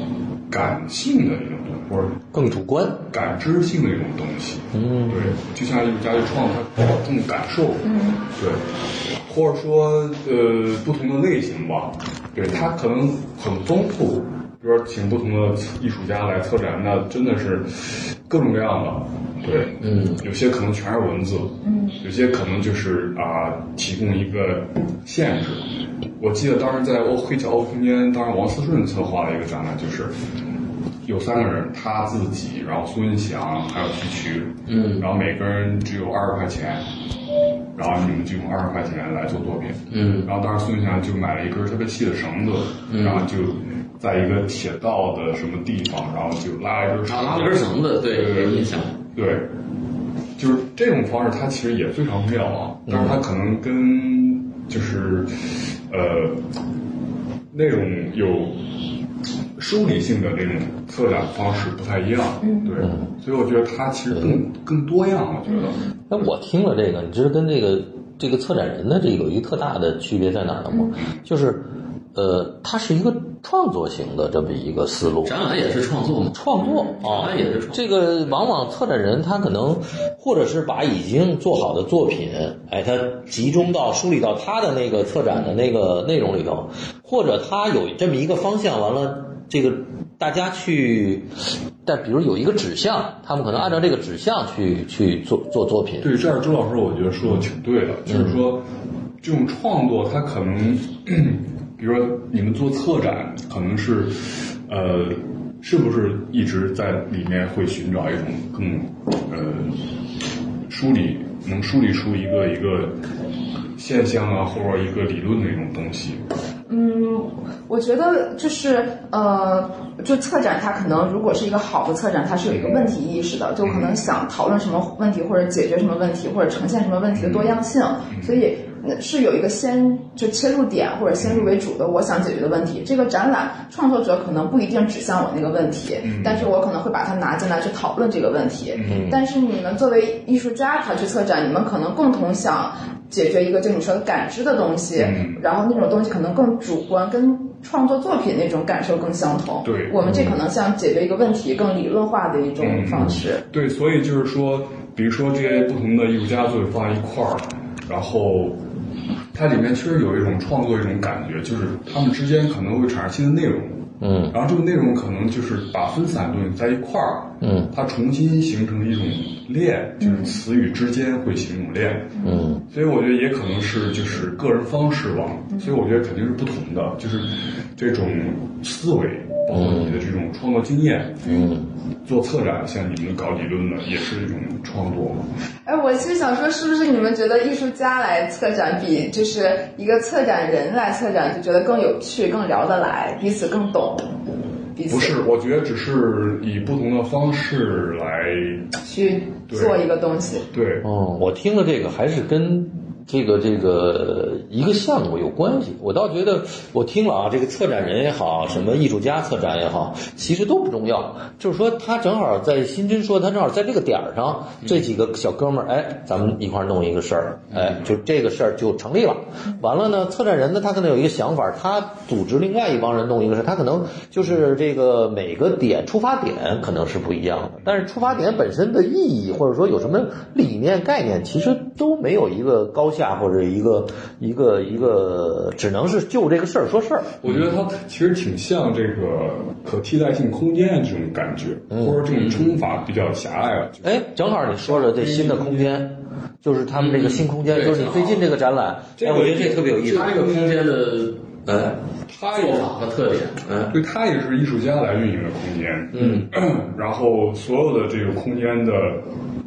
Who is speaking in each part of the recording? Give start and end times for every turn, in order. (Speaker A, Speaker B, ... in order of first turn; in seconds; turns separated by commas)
Speaker A: 0.5-2.3, Speaker B: 2.3-3.1, Speaker A: 3.1-8.6, Speaker B: 4.7-5.4, Speaker C: 7.8-8.2, Speaker A: 9.2-25.6, Speaker D: 19.8-20.2, Speaker C: 21.6-22.0, Speaker A: 26.2-30.1, Speaker A: 31.0-36.9, Speaker D: 34.7-35.1, Speaker A: 37.8-49.5, Speaker D: 39.9-40.3, Speaker D: 42.9-43.3, Speaker D: 47.0-48.9, Speaker A: 50.4-56.4, Speaker B: 52.9-53.2, Speaker A: 57.5-58.6, Speaker A: 59.6-65.8, Speaker C: 62.4-62.8, Speaker B: 66.1-75.4, Speaker D: 75.2-77.9, Speaker B: 76.3-91.3, Speaker B: 91.8-96.1, Speaker A: 96.0-98.7, Speaker B: 98.1-98.4, Speaker A: 99.2-109.8, Speaker A: 110.7-113.0, Speaker A: 113.8-116.2, Speaker C: 116.7-153.4, Speaker A: 122.5-122.9, Speaker A: 123.6-124.0, Speaker A: 127.1-127.6, Speaker A: 128.1-128.5, Speaker A: 131.2-131.5, Speaker A: 136.0-136.5, Speaker A: 138.7-139.2, Speaker B: 138.9-139.2, Speaker A: 145.0-145.4, Speaker A: 149.6-150.3, Speaker A: 152.6-158.6, Speaker A: 159.3-181.3, Speaker B: 164.0-164.4, Speaker B: 167.4-167.7, Speaker C: 170.0-170.3, Speaker B: 172.2-172.6, Speaker B: 179.5-180.1, Speaker B: 181.2-181.7, Speaker A: 182.1-185.2, Speaker C: 185.7-194.1, Speaker C: 194.8-195.2, Speaker A: 194.9-198.7, Speaker C: 198.8-200.5, Speaker A: 199.5-199.8, Speaker A: 200.5-200.9, Speaker B: 200.8-237.2, Speaker D: 217.5-217.8, Speaker A: 237.2-245.8, Speaker B: 241.7-242.1, Speaker D: 242.1-242.6, Speaker B: 243.8-250.3, Speaker D: 246.7-248.2, Speaker A: 249.0-250.8, Speaker D: 249.3-251.2, Speaker B: 251.5-251.8, Speaker A: 252.1-252.7, Speaker D: 252.3-253.4, Speaker B: 253.4-253.8, Speaker A: 253.7-259.0, Speaker B: 255.9-256.3